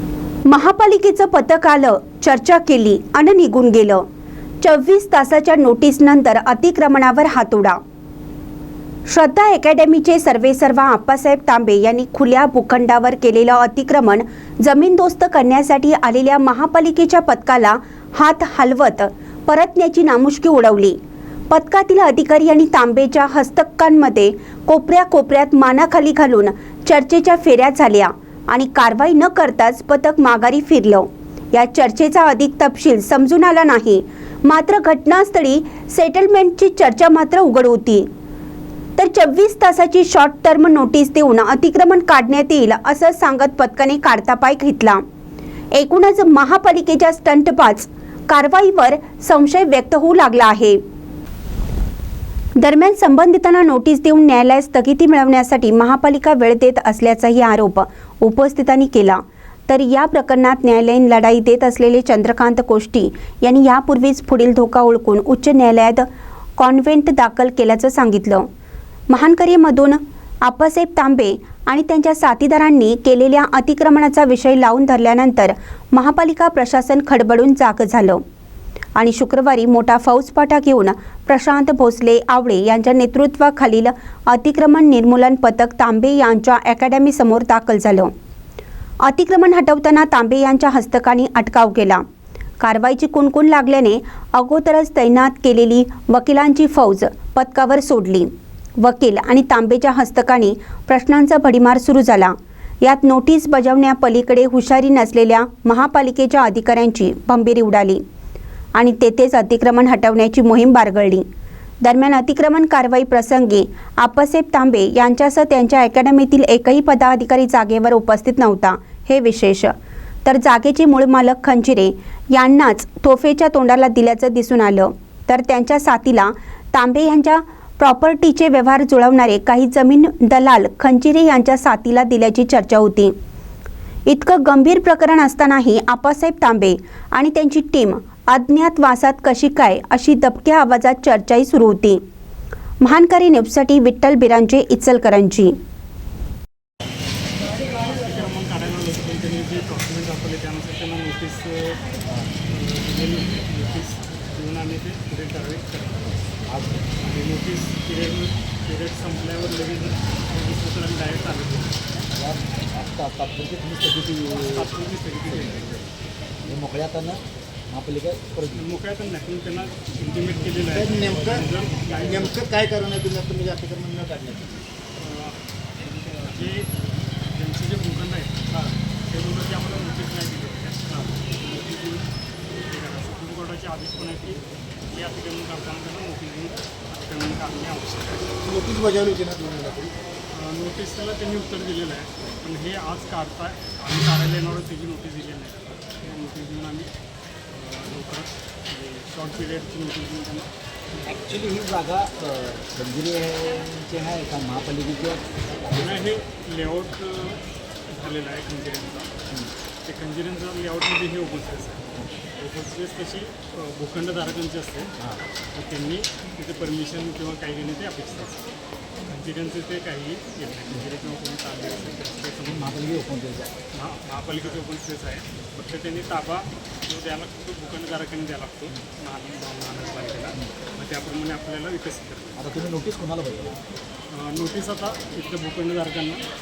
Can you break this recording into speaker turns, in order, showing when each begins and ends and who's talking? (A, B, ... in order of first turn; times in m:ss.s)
0:00.5-0:04.0 A
0:04.6-0:07.8 A
0:09.1-0:21.0 A
0:21.5-0:38.1 A
0:39.0-0:45.0 A
0:45.7-0:50.8 A
0:52.6-1:06.1 A
1:06.6-1:08.5 A
1:09.1-1:18.2 A
1:19.0-1:28.1 A
1:29.0-1:32.0 A
1:32.6-1:48.0 A
1:48.8-1:51.3 A
1:51.8-1:59.7 A
2:00.2-2:13.1 A
2:14.1-2:22.0 A
2:22.8-2:25.6 A
2:27.8-2:31.8 B
2:32.4-2:36.2 B
2:36.5-2:36.9 C
2:37.0-2:41.8 B
2:42.1-2:44.7 C
2:44.4-2:45.7 B
2:45.3-2:45.9 C
2:46.4-2:48.6 C
2:48.5-2:52.4 B
2:50.7-2:51.4 D
2:52.0-2:54.6 D
2:55.0-2:55.4 B
2:56.2-3:02.1 B
3:02.7-3:08.3 B
3:08.4-3:09.9 D
3:10.3-3:16.9 B
3:17.5-3:20.5 B
3:21.0-3:26.1 C
3:25.8-3:29.1 B
3:29.8-3:31.8 B
3:32.4-3:34.9 B
3:35.5-3:38.4 B
3:39.1-3:42.9 B
3:42.4-3:43.5 C
3:43.7-3:52.4 B
3:52.4-3:53.6 C
3:54.1-3:56.2 B